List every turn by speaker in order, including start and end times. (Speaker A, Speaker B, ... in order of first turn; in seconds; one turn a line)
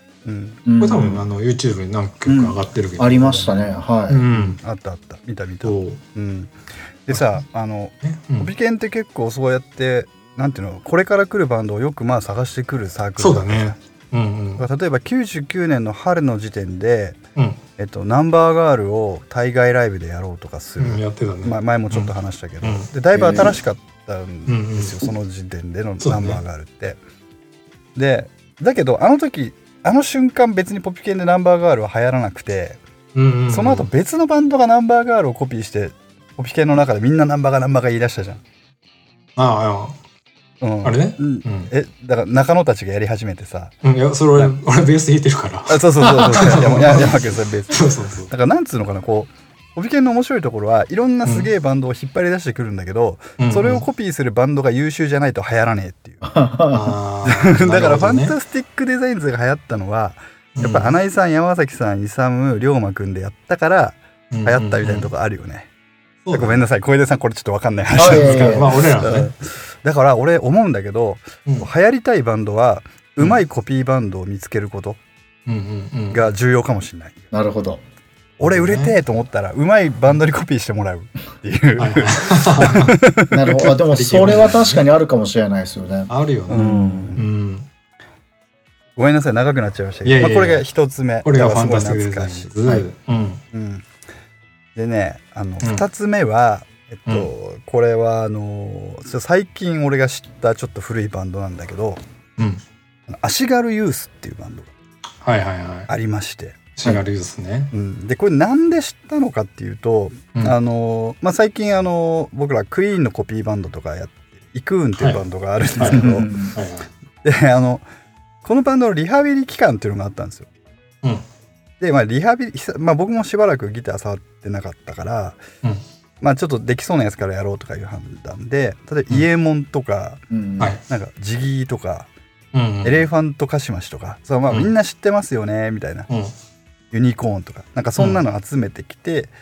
Speaker A: 0.2-0.6
Speaker B: 0.7-1.2
Speaker C: 0.8-3.4
Speaker B: 2.3-4.2
Speaker A: 3.1-3.8
Speaker C: 4.1-4.6
Speaker A: 4.3-13.8
Speaker C: 5.6-6.0
Speaker C: 7.1-7.4
Speaker C: 8.0-8.5
Speaker C: 13.2-14.6
Speaker A: 14.6-17.2
Speaker A: 17.8-27.0
Speaker C: 20.8-22.9
Speaker B: 23.1-23.6
Speaker C: 24.5-25.0
Speaker C: 26.0-26.4
Speaker A: 27.9-32.8
Speaker C: 33.1-33.9
Speaker A: 33.5-38.4
Speaker C: 39.4-40.0
Speaker A: 40.6-43.8
Speaker C: 40.8-41.7
Speaker C: 43.8-48.3
Speaker A: 45.7-56.2
Speaker B: 46.0-46.6
Speaker C: 53.4-53.9
Speaker B: 56.2-57.0
Speaker C: 56.7-58.4
Speaker A: 57.2-65.7
Speaker C: 60.6-60.9
Speaker C: 64.3-65.1
Speaker C: 66.2-66.7
Speaker A: 66.3-75.0
Speaker B: 68.0-68.7
Speaker C: 68.0-69.3
Speaker C: 75.5-76.3
Speaker A: 76.1-77.3
Speaker B: 77.3-77.8
Speaker C: 78.4-79.0
Speaker A: 78.4-83.5
Speaker C: 81.8-84.8
Speaker B: 83.3-87.2
Speaker C: 86.1-87.7
Speaker A: 86.5-87.3
Speaker A: 89.0-92.8
Speaker C: 90.0-90.7
Speaker C: 91.2-93.4
Speaker A: 93.5-93.9
Speaker A: 94.8-102.0
Speaker C: 102.4-102.6
Speaker A: 103.1-104.7
Speaker C: 105.2-105.9
Speaker A: 105.9-106.7
Speaker C: 106.8-107.7
Speaker A: 107.7-116.3
Speaker C: 115.8-116.9
Speaker B: 115.8-116.5
Speaker A: 117.2-117.8
Speaker A: 118.4-120.5
Speaker A: 121.8-125.4
Speaker A: 126.2-130.2
Speaker B: 130.3-130.7
Speaker A: 130.8-132.1
Speaker C: 132.5-133.1
Speaker A: 132.8-136.1
Speaker C: 134.5-134.7
Speaker A: 136.9-139.3
Speaker C: 138.0-138.2